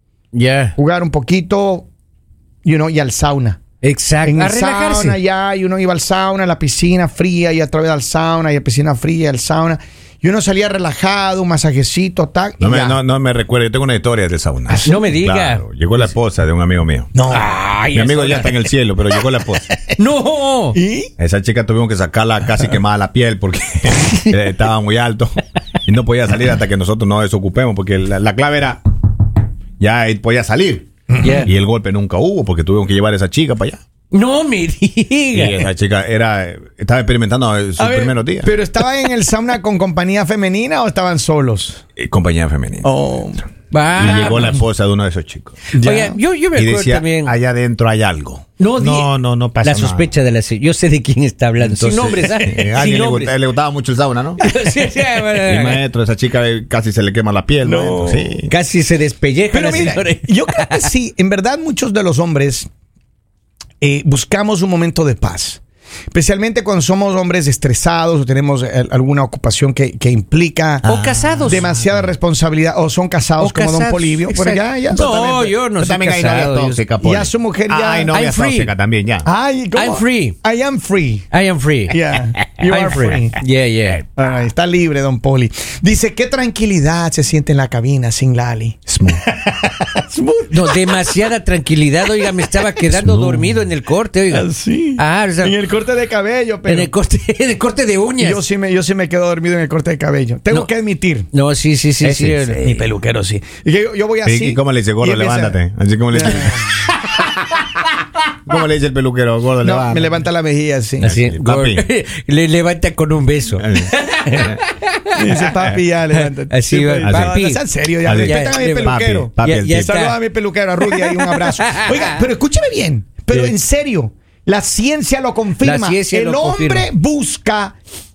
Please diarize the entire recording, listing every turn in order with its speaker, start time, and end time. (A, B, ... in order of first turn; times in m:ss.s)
0:00.3-0:00.8 A
0:00.8-0:01.9 B
0:02.6-0:03.6 B
0:03.8-0:05.2 A
0:04.2-0:13.0 B
0:12.6-0:17.1 C
0:14.7-0:15.0 B
0:14.8-0:15.6 A
0:17.1-0:17.5 B
0:17.3-0:18.6 A
0:17.9-0:19.7 C
0:20.0-0:20.8 A
0:20.8-0:21.1 B
0:21.2-0:25.3 C
0:25.8-0:28.8 C
0:29.8-0:30.9 C
0:31.1-0:31.5 B
0:31.2-0:31.5 A
0:31.4-0:33.8 C
0:34.1-0:35.6 A
0:35.3-0:38.5 C
0:37.8-0:41.8 B
0:42.0-0:42.9 C
0:42.8-0:43.4 B
0:43.7-0:44.6 A
0:44.0-0:45.7 C
0:44.0-0:44.6 B
0:45.7-0:46.2 B
0:45.8-0:47.3 A
0:46.6-0:50.1 C
0:48.6-0:53.3 A
0:51.6-0:54.4 C
0:54.4-0:55.8 A
0:55.4-0:58.5 C
0:57.6-0:58.4 B
0:58.5-1:00.9 A
0:59.5-1:02.7 B
1:03.8-1:05.6 B
1:06.1-1:10.9 B
1:10.8-1:11.7 C
1:10.8-1:11.7 A
1:11.5-1:15.6 B
1:13.4-1:16.8 A
1:15.8-1:19.3 C
1:17.0-1:18.1 B
1:18.1-1:18.7 A
1:19.2-1:21.3 B
1:19.7-1:20.4 A
1:21.3-1:22.0 A
1:21.9-1:23.4 B
1:22.7-1:24.0 A
1:24.2-1:31.2 B
1:28.9-1:29.2 C
1:30.5-1:35.6 A
1:32.2-1:32.5 B
1:33.0-1:33.5 C
1:34.3-1:36.9 B
1:36.6-1:38.4 A
1:38.2-1:41.3 B
1:41.3-1:42.7 A
1:42.0-1:42.6 C
1:42.5-1:45.6 B
1:44.2-1:46.7 C
1:46.1-1:46.7 B
1:48.5-1:50.2 C
1:49.6-1:51.1 B
1:51.0-1:55.2 A
1:51.0-1:51.8 C
1:53.6-1:54.6 C
1:55.2-1:59.3 B
1:56.5-1:57.6 A
1:57.0-1:57.3 C
1:58.0-2:00.0 C
1:58.1-2:00.2 A
1:59.8-2:07.8 B
2:00.9-2:02.2 A
2:05.6-2:06.9 A